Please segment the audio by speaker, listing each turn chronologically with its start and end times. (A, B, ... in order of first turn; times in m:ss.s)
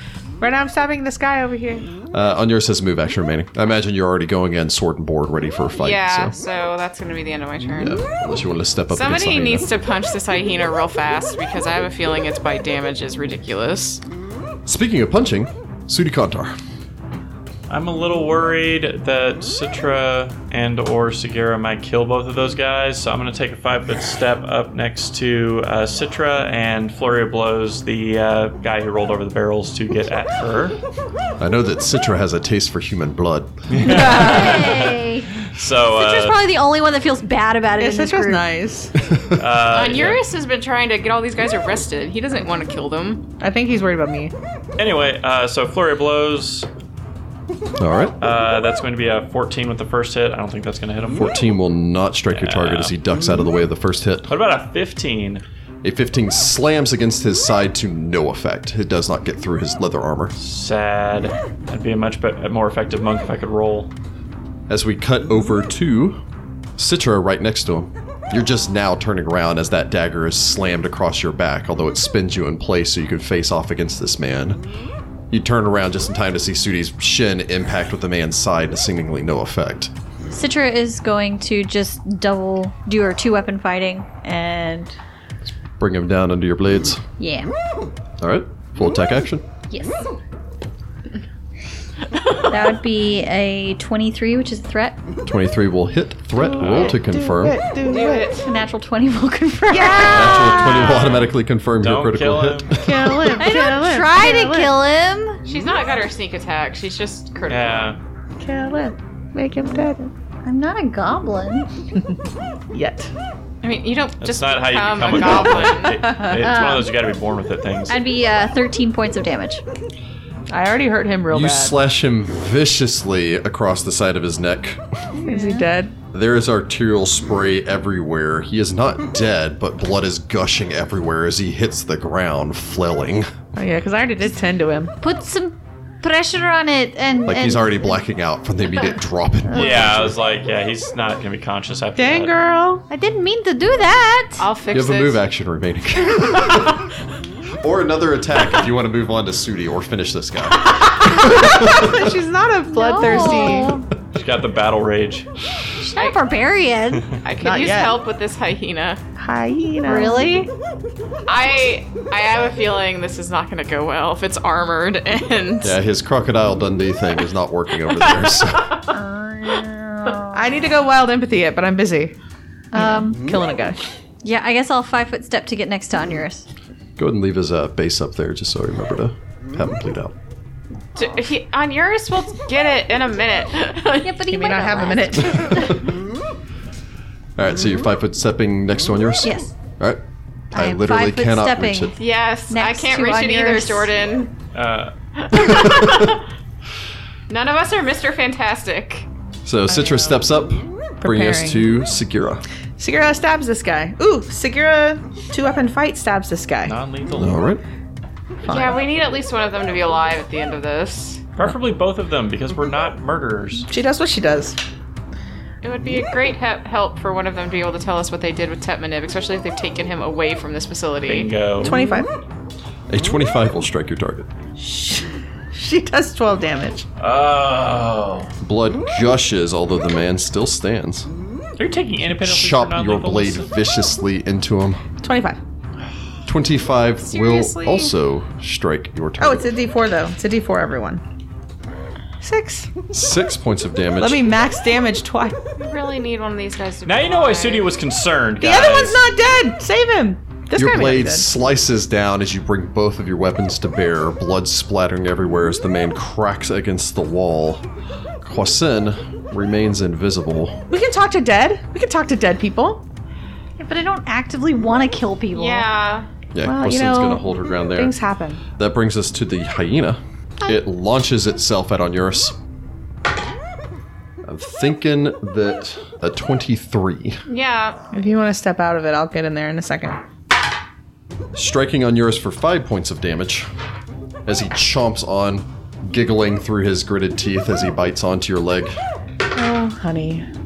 0:00.4-0:02.0 A
0:02.1-0:06.4 B
0:05.8-0:08.0 C
0:07.8-0:09.7 B
0:08.9-0:14.0 C
0:14.7-0:16.6 B
0:17.7-0:30.8 D
0:31.4-0:33.8 B
0:33.7-0:34.8 D
0:33.8-0:34.7 A
0:34.0-0:38.5 E
0:35.4-0:36.4 D
0:37.8-0:38.9 A
0:39.0-0:39.4 B
0:39.3-0:40.2 D
0:39.7-0:43.3 C
0:43.4-0:44.3 A
0:44.8-0:46.7 D
0:47.8-0:48.2 B
0:48.2-0:51.4 D
0:51.2-0:54.3 B
0:52.3-0:52.9 D
0:54.3-0:55.4 D
0:55.8-1:00.4 B
1:00.4-1:03.9 D
1:04.7-1:06.2 B
1:06.8-1:14.6 B
1:15.3-1:19.9 B
1:20.3-1:24.9 E
1:25.8-1:27.0 B
1:27.2-1:27.5 E
1:28.2-1:29.4 B
1:29.7-1:30.0 E
1:32.5-1:35.0 E
1:35.3-1:37.6 B
1:36.4-1:38.3 A
1:37.9-1:38.6 C
1:38.4-1:40.6 E
1:39.7-1:40.4 A
1:40.1-1:43.4 B
1:40.3-1:42.8 D
1:42.8-1:44.7 A
1:43.4-1:45.4 E
1:45.4-1:47.9 C
1:47.5-1:48.0 D
1:48.4-1:50.1 A
1:50.4-1:51.7 E
1:52.7-1:53.1 A
1:53.6-1:56.0 C
1:54.2-1:58.0 D
1:56.0-1:56.4 A
1:56.3-1:56.9 E
1:57.9-1:59.6 E
2:00.5-2:01.8 A
2:01.3-2:04.8 B
2:05.2-2:05.9 A
2:05.3-2:05.7 E
2:06.1-2:13.3 B
2:13.6-2:15.0 A
2:15.0-2:17.8 E
2:17.3-2:20.2 B
2:19.5-2:22.4 D
2:22.0-2:22.9 A
2:22.9-2:24.5 E
2:24.4-2:25.2 C
2:24.7-2:26.9 B
2:27.6-2:32.1 B
2:31.1-2:33.8 A
2:32.7-2:33.9 E
2:34.1-2:35.3 D
2:35.9-2:37.2 E
2:37.2-2:39.0 C
2:37.4-2:38.0 A
2:39.2-2:40.3 A
2:39.8-2:40.5 E
2:41.3-2:45.8 C
2:45.6-2:48.8 B
2:48.0-2:48.8 C
2:48.9-2:50.6 E
2:50.3-2:52.2 A
2:52.7-2:53.2 E
2:52.7-2:53.8 A
2:54.2-2:56.5 E
2:57.0-3:00.2 B
3:01.0-3:04.3 C
3:04.0-3:05.8 E
3:04.3-3:05.8 A
3:05.5-3:05.8 B
3:07.4-3:10.0 B
3:09.2-3:09.5 E
3:10.5-3:11.9 B
3:10.5-3:13.9 E
3:12.0-3:14.3 C
3:14.5-3:14.9 D
3:15.2-3:16.2 C
3:15.8-3:16.0 B
3:17.3-3:19.1 C
3:19.4-3:22.4 B
3:21.0-3:21.7 A
3:22.8-3:26.8 A
3:26.6-3:27.4 D
3:27.2-3:27.6 B
3:28.4-3:28.8 A
3:28.5-3:31.2 C
3:31.4-3:33.7 D
3:33.7-3:34.6 A
3:35.6-3:41.3 C
3:41.1-3:41.8 D
3:41.6-3:42.1 A
3:42.9-3:44.3 B
3:44.6-3:46.9 A
3:47.0-3:48.3 D
3:48.4-3:51.1 B
3:51.6-3:53.5 D
3:52.2-3:54.8 B
3:55.0-3:55.4 A
3:56.3-3:59.5 B
3:57.0-3:57.9 C
3:59.2-4:01.0 A
4:02.2-4:02.7 A
4:02.9-4:04.3 B
4:04.0-4:05.4 A
4:05.6-4:07.7 C
4:06.9-4:09.0 D
4:08.4-4:11.3 A
4:10.6-4:17.7 B
4:18.2-4:20.6 B
4:20.7-4:22.8 A
4:23.6-4:25.7 E
4:25.3-4:26.1 C
4:26.3-4:28.0 B
4:26.4-4:28.4 A
4:28.6-4:32.4 B
4:34.2-4:37.2 B
4:37.3-4:37.8 C
4:37.9-4:40.0 A
4:41.3-4:43.5 B
4:44.3-4:48.8 B
4:49.4-4:50.3 A